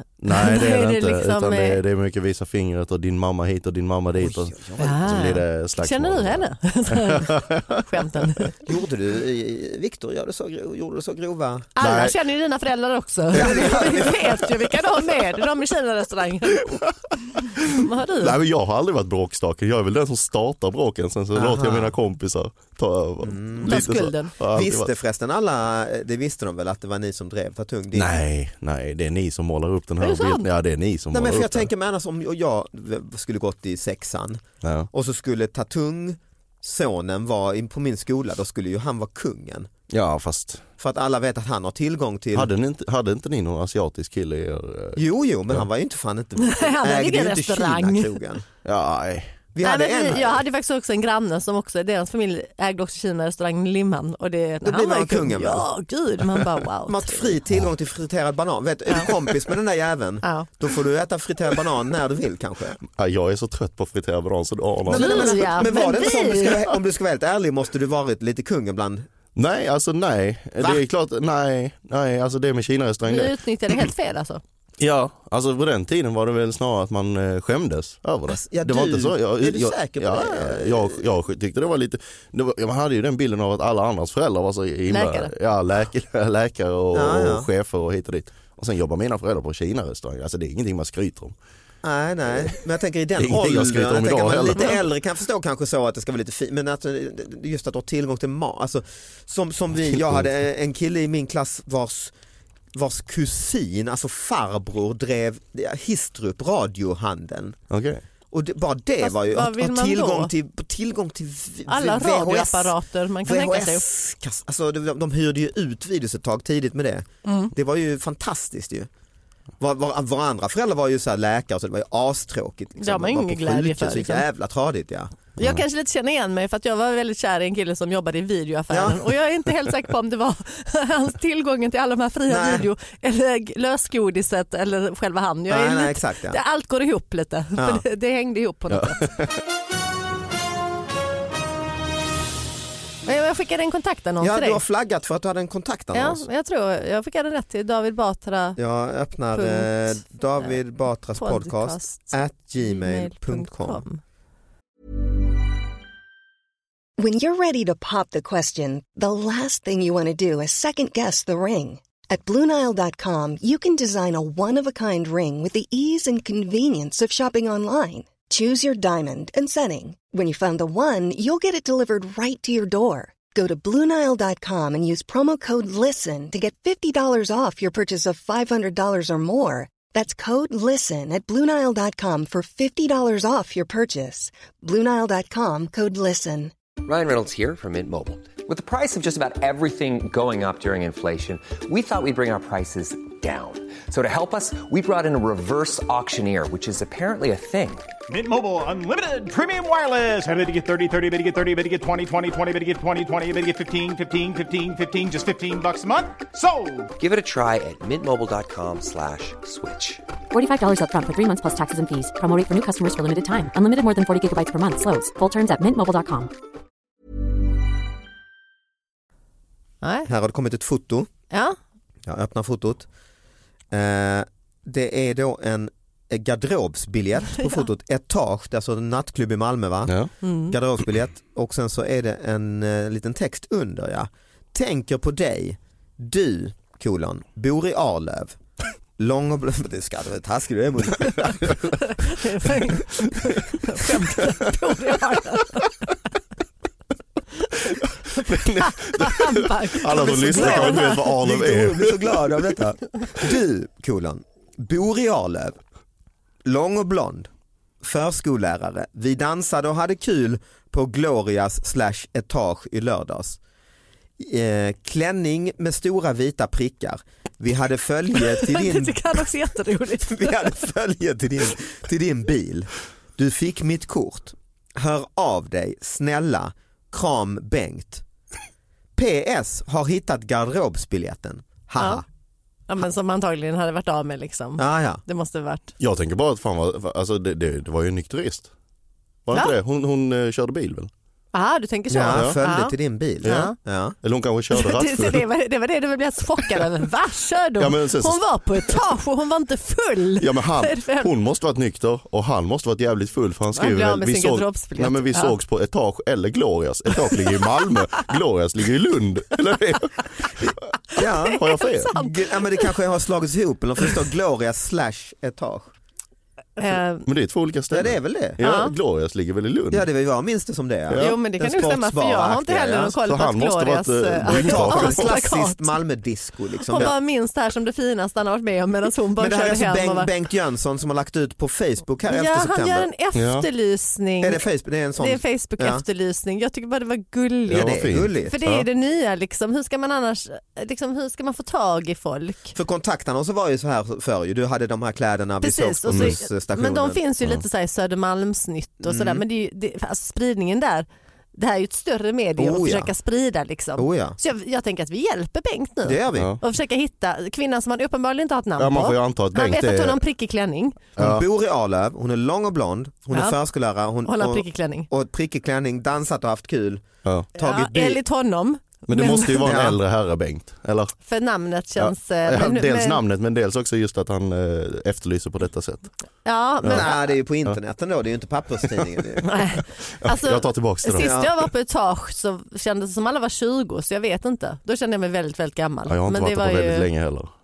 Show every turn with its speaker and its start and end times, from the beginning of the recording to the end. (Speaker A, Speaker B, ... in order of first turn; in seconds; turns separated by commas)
Speaker A: 0.2-7.8, Speaker B: 0.3-1.8, Speaker C: 4.2-5.2, Speaker B: 4.8-8.6, Speaker C: 8.7-11.7, Speaker B: 11.8-16.8, Speaker A: 11.8-12.2, Speaker C: 13.3-14.4, Speaker A: 13.4-14.1, Speaker A: 17.4-24.9, Speaker B: 17.7-18.4, Speaker C: 21.4-21.9, Speaker C: 23.2-23.9, Speaker B: 23.7-24.3, Speaker C: 24.5-28.1, Speaker A: 27.9-31.7, Speaker B: 30.0-30.5, Speaker C: 31.1-39.7, Speaker A: 34.6-34.9, Speaker A: 39.9-40.6, Speaker C: 40.8-42.5, Speaker A: 42.3-45.7, Speaker C: 45.0-48.5, Speaker B: 46.4-48.1, Speaker A: 48.6-49.3, Speaker C: 49.5-50.4, Speaker B: 49.6-57.4, Speaker C: 54.6-55.7, Speaker C: 56.9-62.8, Speaker B: 60.2-60.5, Speaker A: 62.9-65.8, Speaker C: 64.9-69.1, Speaker B: 64.9-66.6, Speaker A: 69.3-73.9, Speaker B: 73.1-74.4, Speaker A: 74.8-91.3, Speaker C: 78.3-81.0, Speaker B: 84.9-85.3, Speaker C: 86.9-87.5, Speaker C: 91.8-102.1, Speaker A: 93.2-94.9, Speaker A: 99.9-100.2, Speaker C: 102.8-107.6, Speaker A: 107.7-108.0, Speaker C: 108.3-118.9, Speaker B: 109.0-110.3, Speaker B: 111.7-113.8, Speaker B: 117.2-117.5, Speaker C: 119.6-125.2, Speaker B: 122.8-124.2, Speaker B: 125.4-139.1, Speaker C: 128.7-129.0, Speaker C: 132.3-132.7, Speaker C: 135.5-136.4, Speaker C: 137.6-137.8, Speaker A: 138.7-139.3, Speaker B: 143.1-144.6, Speaker C: 144.2-146.2, Speaker B: 145.9-148.6, Speaker C: 148.6-153.8, Speaker B: 149.3-150.6, Speaker B: 151.2-154.0, Speaker D: 157.0-186.5, Speaker E: 186.8-198.0, Speaker F: 198.1-206.9, Speaker E: 207.0-210.0, Speaker G: 210.3-216.3, Speaker B: 219.8-220.1, Speaker C: 220.1-221.1, Speaker B: 221.3-221.6, Speaker C: 222.1-222.9, Speaker C: 223.7-229.9, Speaker A: 229.9-230.1, Speaker B: 230.2-230.6, Speaker C: 230.5-238.4, Speaker C: 239.0-241.8, Speaker B: 241.9-245.7, Speaker A: 247.7-252.5, Speaker B: 248.2-251.1, Speaker C: 250.0-255.6, Speaker C: 256.4-257.3, Speaker C: 257.8-263.4, Speaker C: 264.2-269.1, Speaker B: 268.1-270.4, Speaker C: 270.1-278.0, Speaker C: 279.0-282.1, Speaker B: 282.7-285.7, Speaker C: 284.6-285.0, Speaker A: 285.8-288.5, Speaker A: 289.3-290.9, Speaker B: 291.3-293.6, Speaker C: 291.9-294.0, Speaker A: 292.1-292.4, Speaker A: 293.2-295.2, Speaker B: 294.5-301.1, Speaker A: 297.6-298.8, Speaker A: 300.2-310.6, Speaker B: 303.6-305.3, Speaker C: 311.0-315.7, Speaker B: 311.0-312.7, Speaker A: 311.3-311.9, Speaker B: 316.6-317.1, Speaker A: 317.1-319.9, Speaker C: 317.7-318.4, Speaker B: 318.4-318.8, Speaker C: 319.7-323.0, Speaker A: 320.9-321.2, Speaker B: 321.0-325.8, Speaker A: 323.1-325.1, Speaker C: 324.3-326.9, Speaker B: 326.7-330.1, Speaker C: 329.2-332.9, Speaker B: 332.1-334.4, Speaker A: 333.1-333.5, Speaker C: 334.2-335.8, Speaker B: 335.0-342.6, Speaker C: 337.5-338.4, Speaker A: 337.5-338.7, Speaker C: 342.6-347.0, Speaker B: 345.4-360.8, Speaker C: 348.8-349.2, Speaker C: 352.4-352.9, Speaker C: 353.8-354.2, Speaker C: 355.9-356.3, Speaker A: 358.6-360.0, Speaker A: 361.0-361.2, Speaker C: 361.0-368.0, Speaker B: 363.1-363.4, Speaker B: 364.1-364.9, Speaker B: 367.4-369.5, Speaker A: 368.9-371.0, Speaker C: 369.4-369.8, Speaker B: 371.1-373.0, Speaker A: 371.8-375.9, Speaker B: 376.2-377.0, Speaker A: 376.6-376.9, Speaker C: 376.7-379.3, Speaker B: 379.2-386.9, Speaker A: 380.0-381.1, Speaker C: 381.0-381.3, Speaker A: 385.9-387.3